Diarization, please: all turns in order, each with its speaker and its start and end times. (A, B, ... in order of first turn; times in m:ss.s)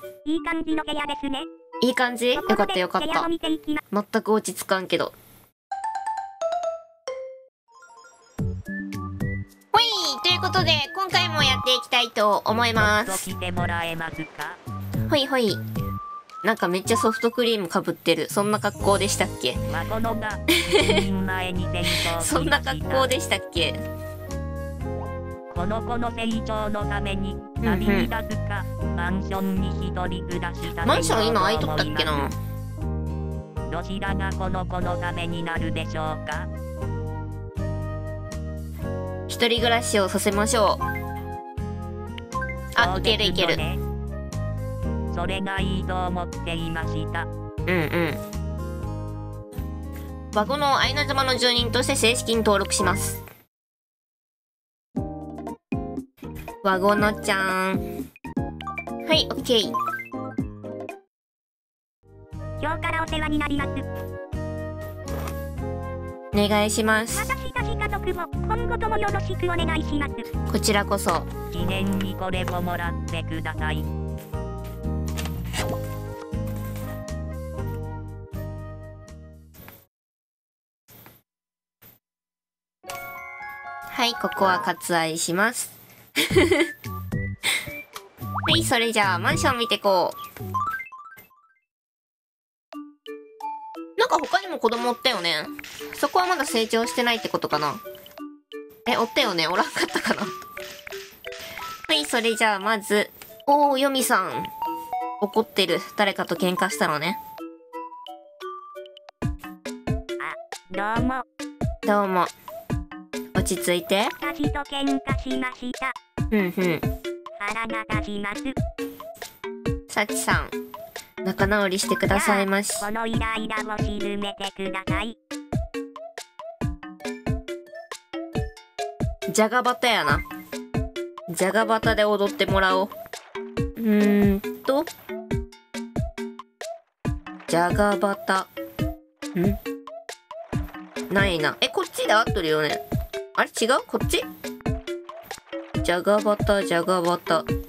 0:00.2-0:01.5 A
0:01.8-0:03.3 B
0:02.4-0:03.8 A
0:03.9-0:05.1 B
0:09.7-0:13.3 B
0:12.8-0:14.6 A
0:15.1-0:15.6 B
0:16.4-0:19.6 B
0:19.7-0:23.1 A
0:20.6-0:21.0 B
0:22.1-0:23.8 B
0:25.5-0:32.3 A
0:27.6-0:28.1 B
0:30.8-0:32.3 B
0:33.7-0:36.5 A
0:39.3-0:40.8 B
0:42.7-0:43.6 B
0:42.8-0:43.8 A
0:45.1-0:47.3 A
0:47.6-0:48.2 B
0:50.3-0:53.2 B
0:56.6-0:57.8 B
0:59.0-0:59.7 B
1:02.6-1:03.8 A
1:06.3-1:07.3 B
1:07.1-1:10.3 A
1:10.5-1:11.3 B
1:11.5-1:13.9 A
1:23.9-1:25.7 B
1:26.3-1:26.7 B
1:28.4-1:30.2 B
1:34.0-1:37.8 B
1:38.9-1:40.3 B
1:41.9-1:44.5 B
1:45.2-1:47.2 B
1:50.2-1:51.2 A
1:51.8-1:52.3 B
1:53.3-1:54.1 B
1:54.2-1:55.9 A
1:56.3-1:56.8 B
1:57.4-1:58.6 A
1:59.9-2:00.5 B
2:01.2-2:02.8 B
2:02.1-2:05.2 A
2:09.3-2:10.2 B
2:11.3-2:12.9 B
2:13.8-2:14.9 B
2:17.5-2:18.5 B
2:21.1-2:22.8 B
2:23.4-2:24.2 B
2:25.8-2:27.5 B